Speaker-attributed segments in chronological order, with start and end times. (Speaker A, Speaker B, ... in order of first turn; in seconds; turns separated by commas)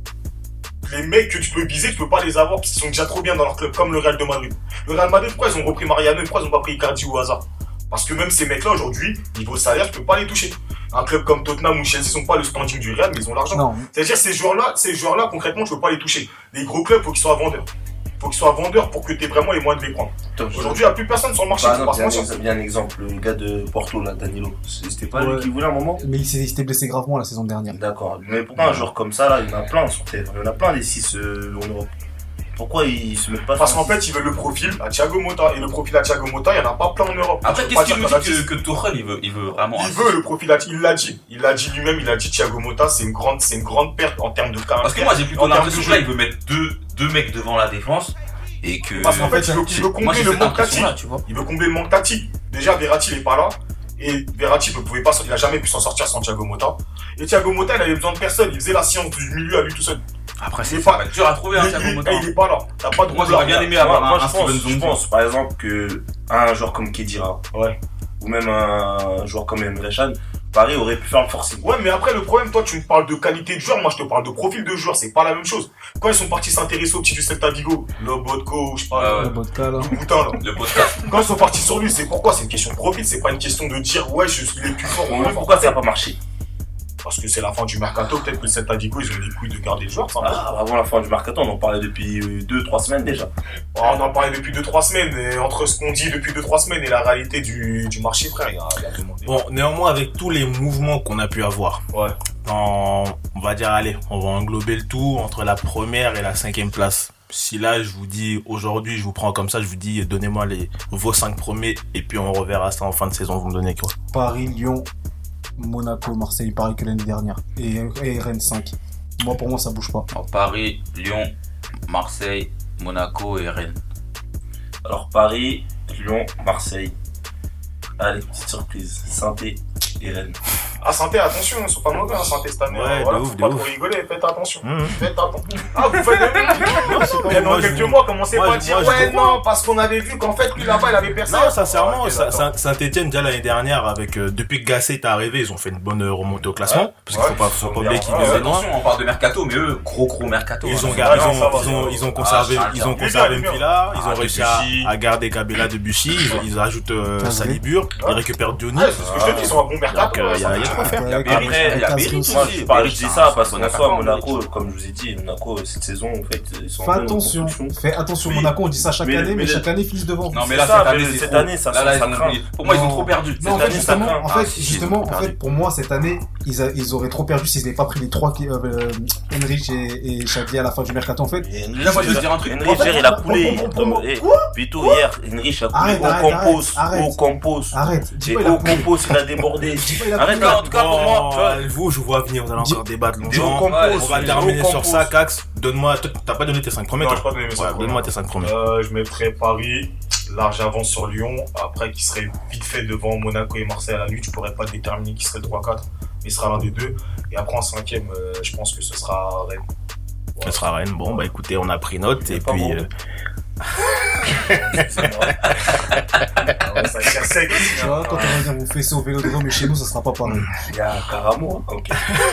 Speaker A: 0.8-17.7, Speaker B: 13.5-13.9, Speaker A: 18.2-22.3, Speaker C: 20.3-20.9, Speaker C: 21.5-26.0, Speaker B: 25.1-27.8, Speaker C: 27.7-31.9, Speaker C: 32.6-34.0, Speaker A: 33.5-38.5, Speaker D: 37.4-40.2, Speaker A: 39.8-46.1, Speaker D: 44.8-51.2, Speaker A: 49.0-60.0, Speaker B: 49.0-49.8, Speaker D: 60.4-62.3, Speaker A: 60.6-63.8, Speaker D: 63.1-65.0, Speaker C: 63.7-67.4, Speaker C: 68.2-71.7, Speaker A: 71.6-85.8, Speaker D: 78.9-79.3, Speaker B: 79.2-80.0, Speaker D: 80.4-81.1, Speaker C: 85.0-86.2, Speaker A: 87.0-90.5, Speaker C: 90.2-93.3, Speaker A: 93.8-99.4, Speaker E: 99.2-101.8, Speaker E: 102.4-113.9, Speaker B: 114.1-114.9, Speaker B: 115.6-120.1, Speaker D: 120.1-121.3, Speaker D: 121.9-123.8, Speaker C: 124.8-127.0, Speaker C: 128.0-130.4, Speaker A: 130.8-142.5, Speaker E: 132.7-133.7, Speaker E: 134.6-135.1, Speaker E: 136.7-139.4, Speaker B: 136.9-137.5, Speaker E: 141.2-148.7, Speaker A: 147.1-148.4, Speaker D: 147.4-153.1, Speaker E: 150.6-161.2, Speaker C: 150.9-151.5, Speaker A: 150.9-152.1, Speaker A: 152.9-153.7, Speaker D: 153.9-154.9, Speaker B: 157.2-157.6, Speaker A: 158.7-161.1, Speaker C: 159.0-159.6, Speaker B: 160.4-162.7, Speaker C: 161.2-167.8, Speaker D: 161.2-164.4, Speaker B: 166.8-170.4, Speaker C: 169.0-169.7, Speaker D: 170.3-175.3, Speaker C: 170.4-172.5, Speaker B: 172.6-185.1, Speaker C: 173.4-174.3, Speaker C: 181.4-191.4, Speaker D: 181.8-183.0, Speaker B: 185.7-187.2, Speaker B: 187.7-188.9, Speaker B: 189.7-190.7, Speaker D: 190.2-191.6, Speaker E: 190.5-198.6, Speaker B: 192.6-192.8, Speaker C: 193.3-195.0, Speaker D: 193.3-194.7, Speaker A: 197.0-209.6, Speaker A: 210.3-211.3, Speaker E: 210.4-212.9, Speaker C: 212.3-212.8, Speaker E: 214.3-214.6, Speaker A: 214.4-214.9, Speaker C: 214.5-215.6, Speaker A: 216.6-218.3, Speaker B: 217.6-220.5, Speaker C: 218.1-218.3, Speaker C: 220.6-222.2